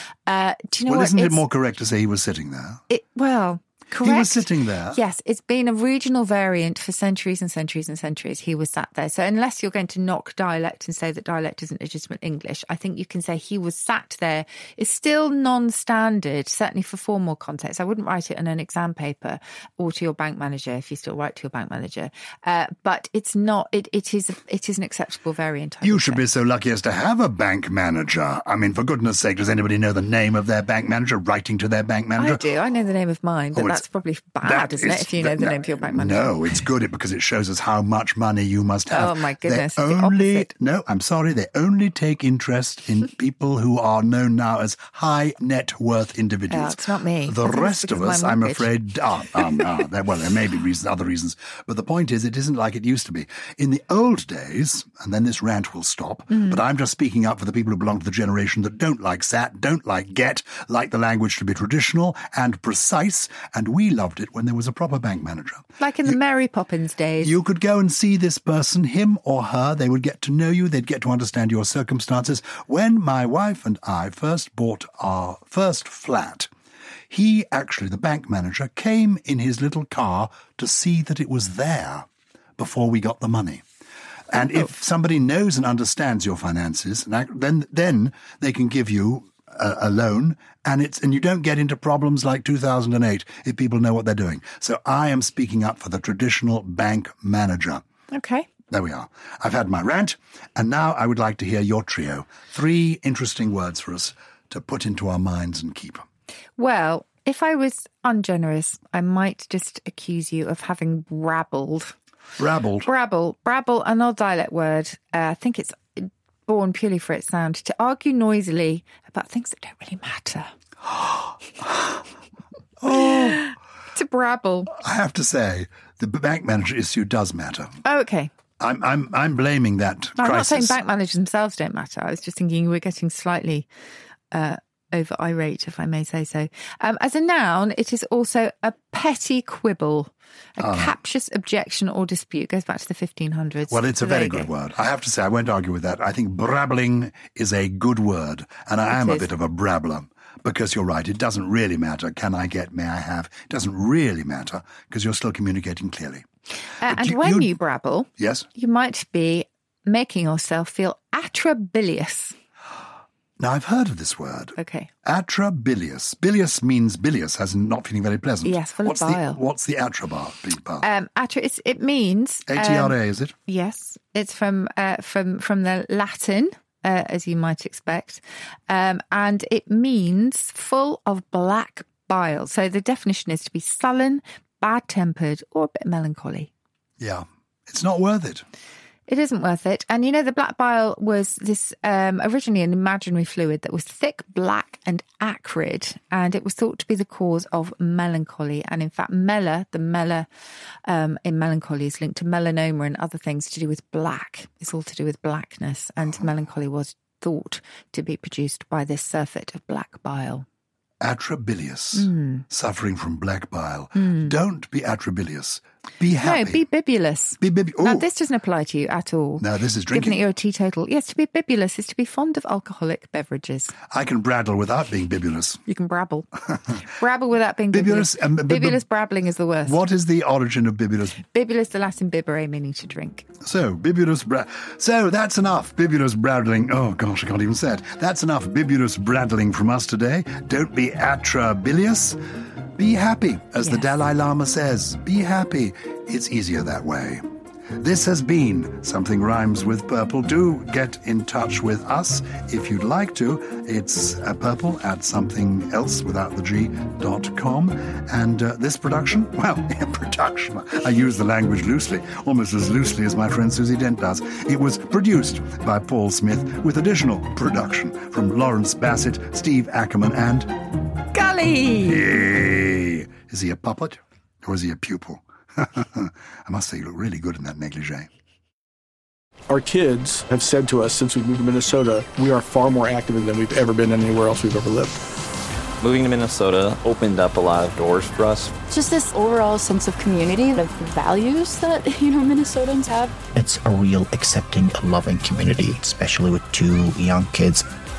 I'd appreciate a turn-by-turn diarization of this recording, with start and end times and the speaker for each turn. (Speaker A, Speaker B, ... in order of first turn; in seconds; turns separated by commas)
Speaker A: 0.3-1.4, Speaker B: 0.9-2.8, Speaker A: 2.9-26.2, Speaker B: 4.0-5.0, Speaker B: 25.8-32.4, Speaker A: 32.2-36.4, Speaker B: 33.5-33.8, Speaker B: 34.4-66.2, Speaker A: 38.9-40.5, Speaker A: 46.5-48.7, Speaker A: 56.3-56.6, Speaker A: 65.8-67.3, Speaker B: 67.2-76.5, Speaker B: 77.1-83.6, Speaker B: 84.3-97.8, Speaker A: 98.1-98.5, Speaker B: 98.7-106.0, Speaker A: 106.6-112.0, Speaker B: 112.4-112.9, Speaker A: 112.8-120.5, Speaker B: 120.9-122.0, Speaker B: 122.8-123.4, Speaker A: 122.9-124.7, Speaker B: 124.7-127.8, Speaker A: 127.8-128.3, Speaker B: 128.6-130.8, Speaker A: 130.2-133.7, Speaker A: 134.3-144.5, Speaker B: 140.6-140.9, Speaker B: 143.7-156.3, Speaker A: 148.9-149.3, Speaker A: 156.8-162.3, Speaker B: 156.8-157.6, Speaker B: 158.2-158.5, Speaker B: 163.4-170.9, Speaker A: 164.6-164.9, Speaker A: 168.4-169.4, Speaker A: 170.8-186.5, Speaker B: 172.5-173.3, Speaker B: 187.0-188.4, Speaker A: 189.1-200.3, Speaker A: 200.9-210.4, Speaker B: 211.0-216.7, Speaker A: 211.9-212.5, Speaker A: 213.9-214.3, Speaker A: 216.2-223.8, Speaker B: 217.4-218.1, Speaker B: 219.4-220.2, Speaker B: 223.9-225.6, Speaker A: 225.7-229.8, Speaker B: 227.7-228.8, Speaker B: 229.6-231.2, Speaker A: 231.3-233.3, Speaker B: 233.4-242.2, Speaker B: 242.8-247.2, Speaker B: 247.8-270.5, Speaker A: 271.1-272.1, Speaker B: 271.8-278.1, Speaker C: 279.5-285.0, Speaker D: 285.8-288.5, Speaker E: 288.7-293.2, Speaker F: 293.3-297.7